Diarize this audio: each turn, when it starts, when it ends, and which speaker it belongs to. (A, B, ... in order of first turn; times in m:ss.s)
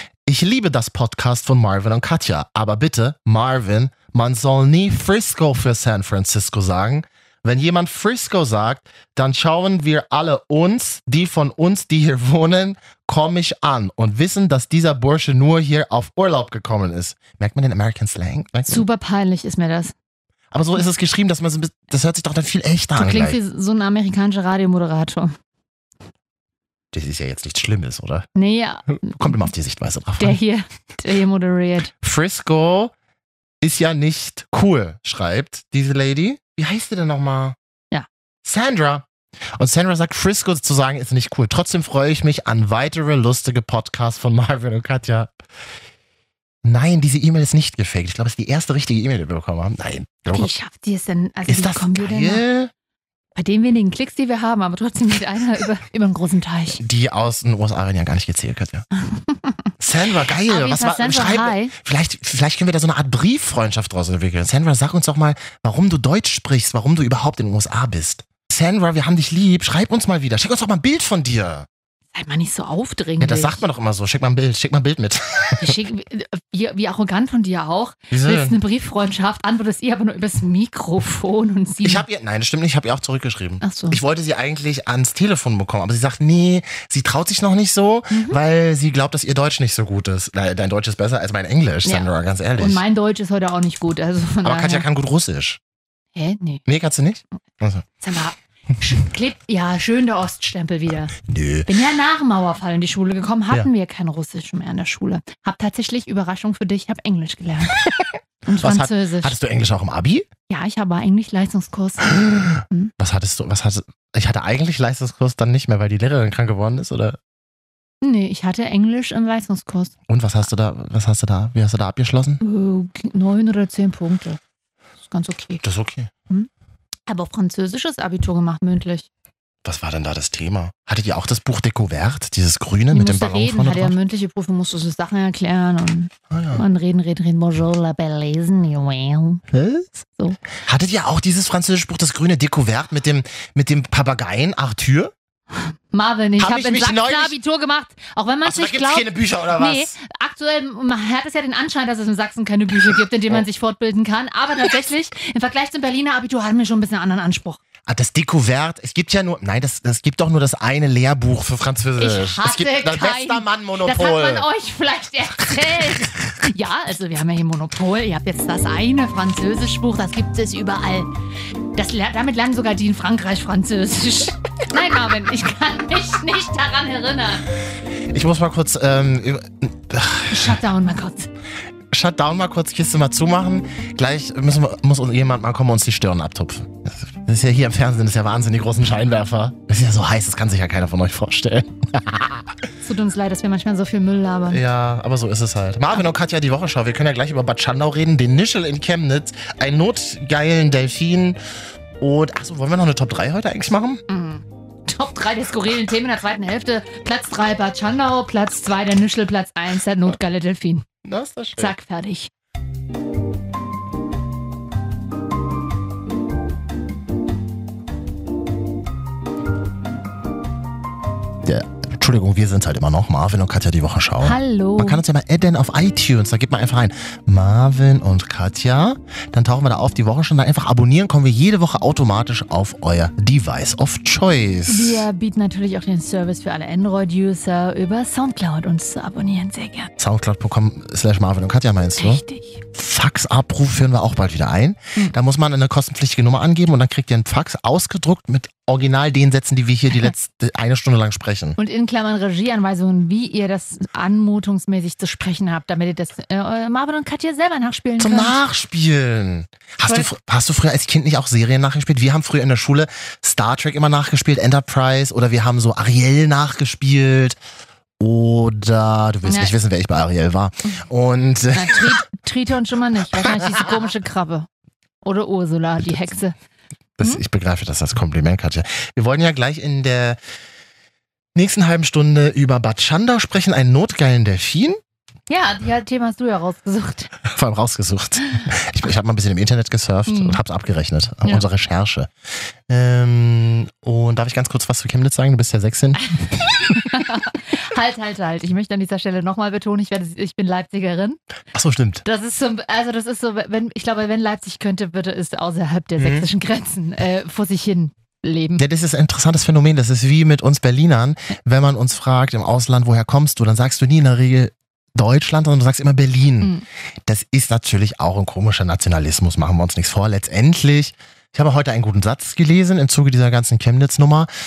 0:00.2-0:18.9 A
0:18.7-0:19.9 B
0:20.5-0:23.4 A
0:23.0-0:25.3 B
0:26.9-0:28.3 A
0:28.4-0:29.4 B
0:29.0-0:30.4 A
0:30.2-0:31.9 B
0:32.0-0:32.9 A
0:33.6-0:37.6 A
0:38.4-0:45.3 A
0:46.6-0:50.5 A
0:50.3-0:52.4 B
0:51.5-0:52.7 A
0:53.3-0:56.8 B
0:56.8-0:58.8 A
0:59.1-0:59.6 B
0:59.8-1:11.7 A
1:00.4-1:01.7 B
1:12.1-1:13.6 B
1:13.2-1:15.7 A
1:15.6-1:22.0 B
1:18.1-1:18.6 A
1:21.8-1:32.8 A
1:23.6-1:24.0 B
1:28.1-1:28.4 B
1:31.8-1:34.8 B
1:34.4-1:35.6 A
1:36.1-1:36.6 B
1:36.6-1:37.8 A
1:38.0-1:41.1 B
1:41.2-1:41.7 A
1:41.7-1:47.8 B
1:47.8-1:50.3 A
1:48.4-1:49.3 B
1:50.5-1:52.2 B
1:52.1-1:57.2 A
1:58.0-1:59.9 B
2:00.1-2:02.4 A
2:02.4-2:04.4 B
2:05.1-2:05.6 B
2:05.6-2:06.1 A
2:07.1-2:09.0 B
2:09.6-2:13.9 A
2:12.9-2:19.4 B
2:16.3-2:16.6 A
2:19.5-2:19.9 A
2:20.0-2:20.4 B
2:20.6-2:25.1 A
2:25.5-2:37.6 B
2:26.4-2:27.4 A
2:28.4-2:29.9 A
2:37.8-2:44.5 A
2:42.0-2:51.1 B
2:45.5-2:46.3 A
2:51.7-2:57.4 B
2:58.1-3:00.6 A
3:00.3-3:01.3 B
3:01.9-3:12.5 A
3:12.8-3:14.6 B
3:14.5-3:21.4 A
3:22.0-3:24.0 A
3:24.1-3:30.8 B
3:31.0-3:31.7 A
3:31.6-3:32.3 B
3:41.4-3:55.1 A
3:44.2-3:45.0 B
3:54.7-3:59.9 B
4:00.0-4:02.2 A
4:02.0-4:02.6 B
4:02.7-4:11.6 A
4:11.6-4:18.4 B
4:18.0-4:27.4 A
4:28.0-4:32.0 A
4:29.2-4:29.5 B
4:31.5-4:34.5 B
4:33.1-4:33.9 A
4:35.0-4:36.3 B
4:37.0-4:40.2 A
4:41.3-4:44.8 A
4:45.3-4:47.1 B
4:47.2-4:52.1 A
4:50.1-4:50.4 B
4:52.7-4:56.0 A
4:56.0-5:01.2 B
5:01.5-5:02.0 A
5:02.0-5:08.6 B
5:06.0-5:06.3 A
5:08.6-5:16.5 A
5:17.0-5:24.3 A